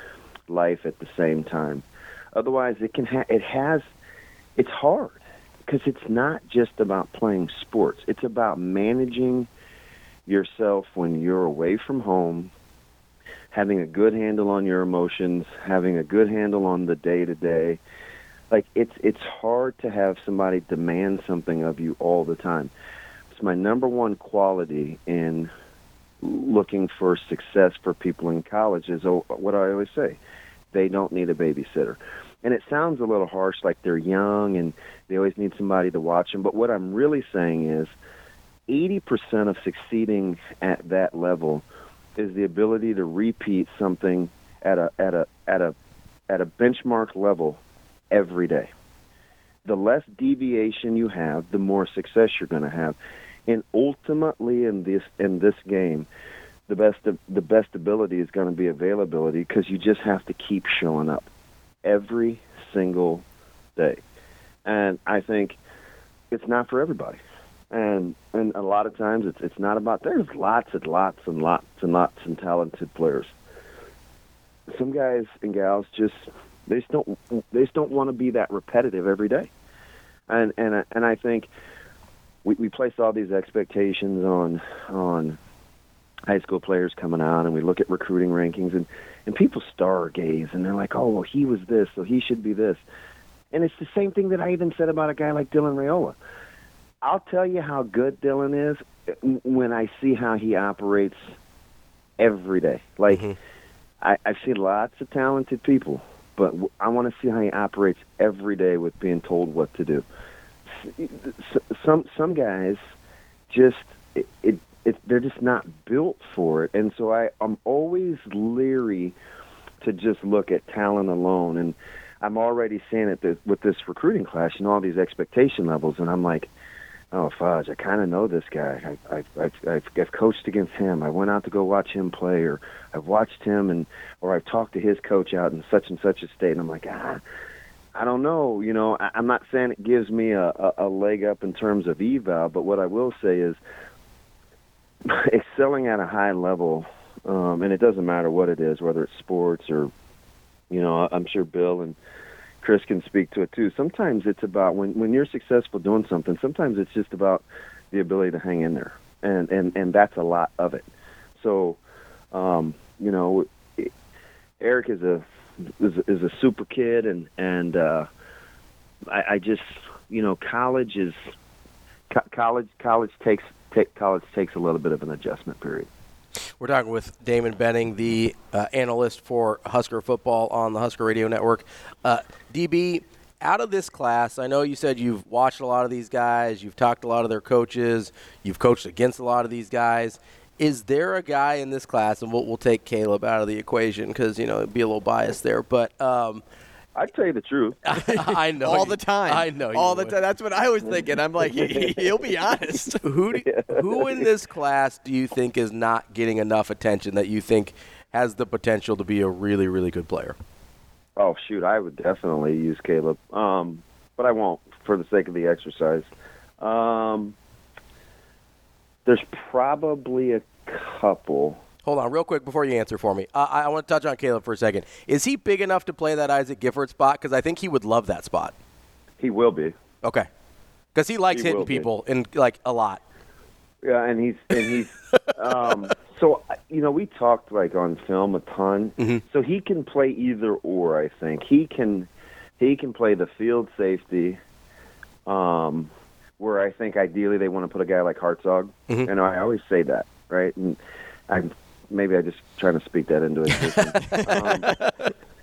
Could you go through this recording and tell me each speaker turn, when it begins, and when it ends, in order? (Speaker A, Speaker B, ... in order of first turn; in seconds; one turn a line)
Speaker A: 0.5-3.8
Speaker A: 4.6-9.5
Speaker A: 10.3-12.5
Speaker A: 13.5-17.8
Speaker A: 18.5-22.7
Speaker A: 23.3-25.5
Speaker A: 26.2-30.2
Speaker A: 30.7-37.9
Speaker A: 38.7-41.6
Speaker A: 42.2-45.8
Speaker A: 46.3-48.7
Speaker A: 49.6-53.0
Speaker A: 53.5-56.1
Speaker A: 56.7-61.3
Speaker A: 61.8-63.2
Speaker A: 63.8-64.0
Speaker A: 64.7-65.6
Speaker A: 66.3-67.2
Speaker A: 67.7-73.3
Speaker A: 74.7-79.5
Speaker A: 80.3-81.5
Speaker A: 82.4-85.4
Speaker A: 86.3-92.8
Speaker A: 93.5-96.2
Speaker A: 97.0-101.2
Speaker A: 102.2-103.3
Speaker A: 104.0-110.0
Speaker A: 110.7-112.8
Speaker A: 113.5-119.2
Speaker A: 119.8-126.5
Speaker A: 127.1-137.2
Speaker A: 137.9-143.6
Speaker A: 145.1-149.9
Speaker A: 150.7-152.0
Speaker A: 152.6-161.8
Speaker A: 162.3-163.9
Speaker A: 164.6-168.1
Speaker A: 169.1-171.2
Speaker A: 172.1-175.9
Speaker B: 176.6-196.4
Speaker A: 196.9-197.9
Speaker B: 197.9-200.2
Speaker C: 198.0-203.0
Speaker A: 200.9-202.3
Speaker B: 203.0-210.3
Speaker A: 203.4-204.2
Speaker A: 211.2-216.1
Speaker A: 216.6-217.3
Speaker A: 219.1-221.6
Speaker B: 221.8-228.5
Speaker A: 229.2-229.8
Speaker B: 230.9-233.0
Speaker A: 231.3-231.9
Speaker A: 233.8-244.4
Speaker A: 245.3-254.8
Speaker C: 254.0-254.3